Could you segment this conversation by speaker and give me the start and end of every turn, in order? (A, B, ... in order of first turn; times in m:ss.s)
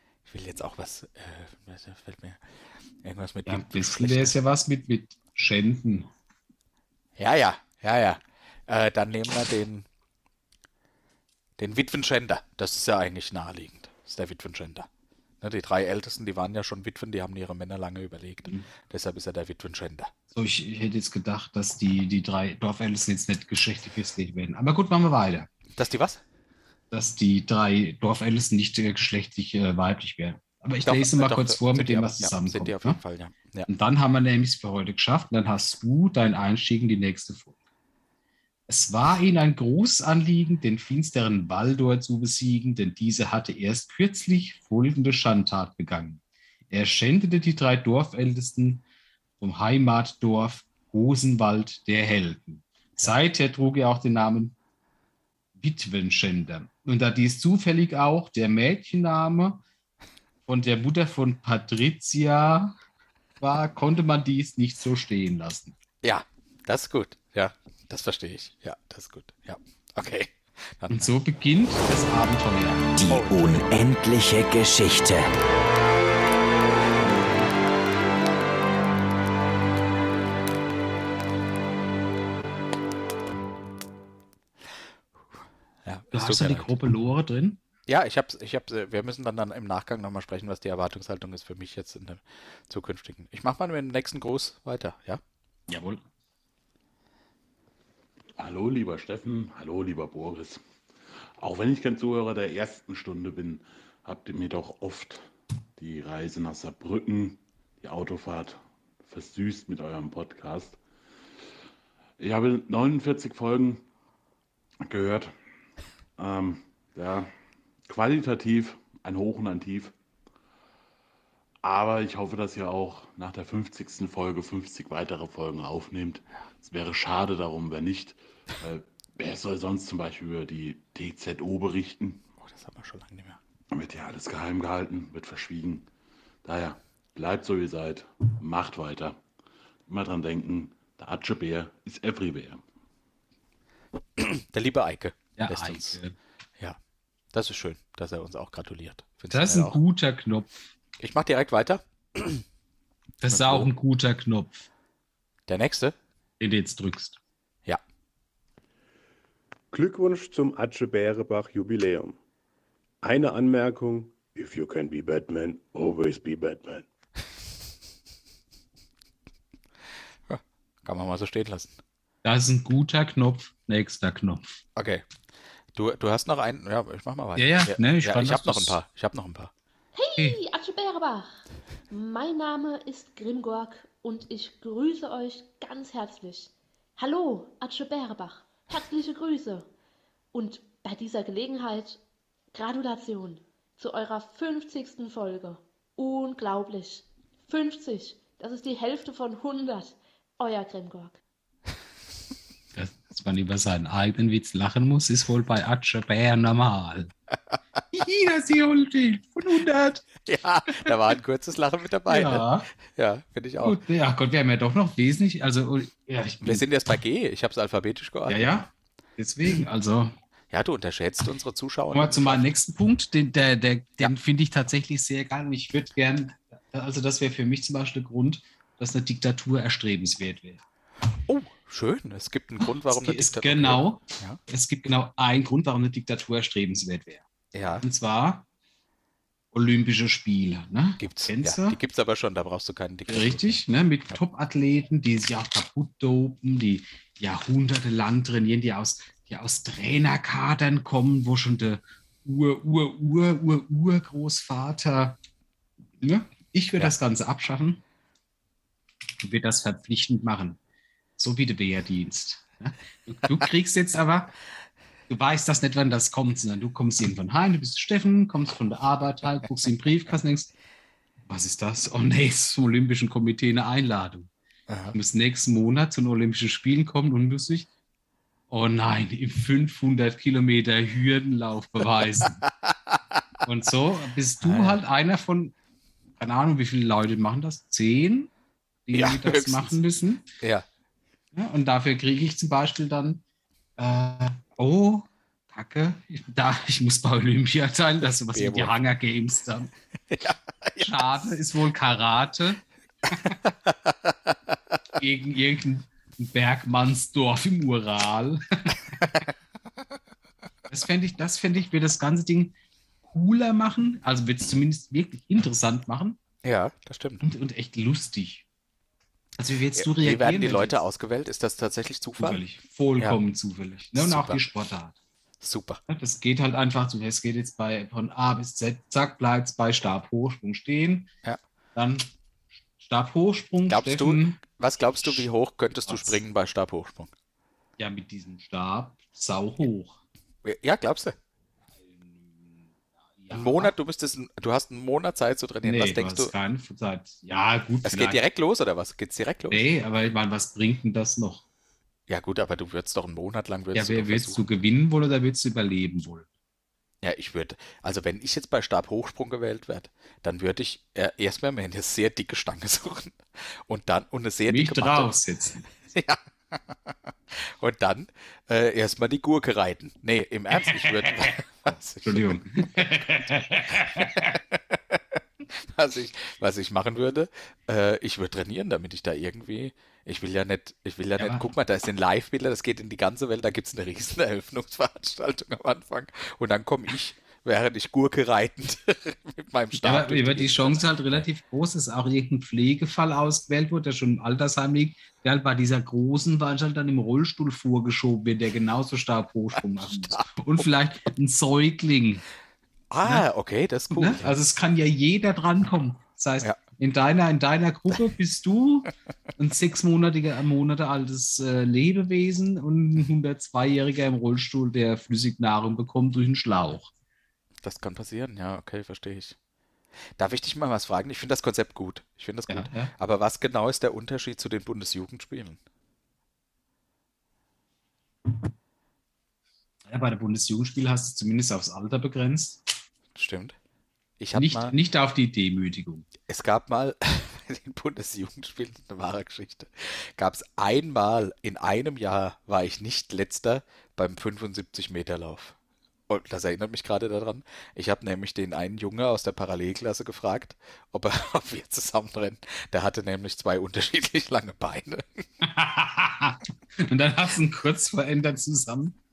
0:00.3-0:02.4 A
0:03.0-0:04.4 A
0:03.5-0:06.1 B
0:07.2-0:09.9 A
0:11.6-0:14.9 A
0:15.4-0:20.1 A
0:20.3-0:25.5 B
0:25.8-0:26.2 A
0:26.9-0:33.0 B
0:30.8-0:33.7 A
0:33.7-0:37.6 B
0:38.7-0:48.8 B
0:49.4-0:54.6 B
0:55.6-0:59.6 B
1:00.5-1:02.8 B
1:03.4-1:05.8 B
1:06.0-1:11.1 A
1:10.9-1:13.0 B
1:13.1-1:13.9 A
1:13.1-1:15.3 C
1:17.0-1:17.5 B
1:25.8-1:26.7 A
1:26.1-1:27.6 B
1:27.9-1:35.2 A
1:35.7-1:36.0 B
1:38.4-1:40.6 D
1:41.4-1:50.8 D
1:52.2-1:53.8 D
1:54.8-1:55.3 D
1:56.2-1:57.3 D
1:57.9-1:59.9 D
2:01.6-2:12.2 D
2:12.4-2:13.4 A
2:13.7-2:15.9 D
2:16.4-2:19.2 D
2:19.9-2:22.6 D
2:24.2-2:26.0 A
2:25.4-2:26.1 B
2:27.3-2:29.8 A
2:29.3-2:30.5 B
2:31.0-2:32.4 A
2:33.2-2:34.7 B
2:33.3-2:33.7 A
2:35.5-2:36.0 A
2:36.4-2:37.2 B
2:39.7-2:42.2 E
2:43.0-2:46.8 E
2:50.3-2:51.8 A
2:52.2-2:54.4 B
2:54.8-2:55.0 A
2:55.8-2:59.5 A
2:57.4-2:58.8 B
3:00.0-3:09.7 F
3:10.3-3:12.0 F
3:12.5-3:21.2 F
3:22.7-3:27.1 B
3:27.9-3:30.1 B
3:30.2-3:33.8 A
3:32.1-3:32.7 B
3:33.6-3:36.7 B
3:36.4-3:38.7 A
3:38.3-3:40.1 B
3:40.5-3:42.5 A
3:41.9-3:50.6 B
3:51.3-3:54.4 A
3:52.8-3:57.3 B
3:57.5-3:57.8 A
3:57.8-3:58.4 B
3:59.5-4:01.8 B
4:01.0-4:03.6 A
4:03.1-4:15.2 B
4:16.0-4:17.8 B
4:19.2-4:20.6 B
4:21.2-4:24.3 B
4:25.1-4:30.5 B
4:31.3-4:34.3 B
4:34.7-4:35.0 A
4:34.9-4:37.7 B
4:38.5-4:42.4 B
4:43.4-4:45.5 B
4:44.4-4:44.8 A
4:46.2-4:48.3 B
4:48.9-4:50.3 B
4:48.9-4:49.8 A
4:50.4-4:50.7 A
4:51.3-4:53.2 B
4:53.8-4:59.7 B
4:58.3-4:58.8 A
5:00.1-5:01.2 A
5:00.8-5:03.3 B
5:03.3-5:04.6 A
5:05.0-5:09.1 B
5:10.7-5:16.2 B
5:16.4-5:17.3 A
5:17.2-5:18.4 B
5:19.4-5:20.8 B
5:19.8-5:22.4 A
5:22.2-5:25.0 B
5:23.9-5:24.4 A
5:25.4-5:25.8 A
5:25.9-5:31.1 B
5:31.8-5:32.1 B
5:32.8-5:34.4 B
5:33.7-5:37.1 A
5:35.9-5:36.2 B
5:37.8-5:40.0 B
5:40.4-5:41.2 A
5:41.8-5:43.7 B
5:43.3-5:46.3 A
5:45.6-5:48.2 B
5:47.8-5:49.7 A
5:49.5-5:51.4 B
5:52.1-5:54.4 A
5:53.7-5:56.3 B
5:57.0-6:05.1 A
6:04.5-6:05.6 B
6:05.9-6:06.6 A
6:07.3-6:12.4 A
6:10.7-6:11.2 B
6:12.0-6:14.4 B
6:13.8-6:15.0 A
6:15.6-6:31.3 A
6:21.2-6:21.5 B
6:29.8-6:42.2 B
6:39.8-6:40.7 A
6:42.9-6:44.4 A
6:43.9-6:56.9 B
6:57.6-6:59.4 A
7:00.2-7:05.6 A
7:02.5-7:02.9 B
7:09.9-7:12.6 B
7:13.2-7:13.6 A
7:14.2-7:14.8 A
7:14.3-7:16.1 B
7:16.3-7:25.6 A
7:26.1-7:35.2 A
7:35.4-7:39.0 B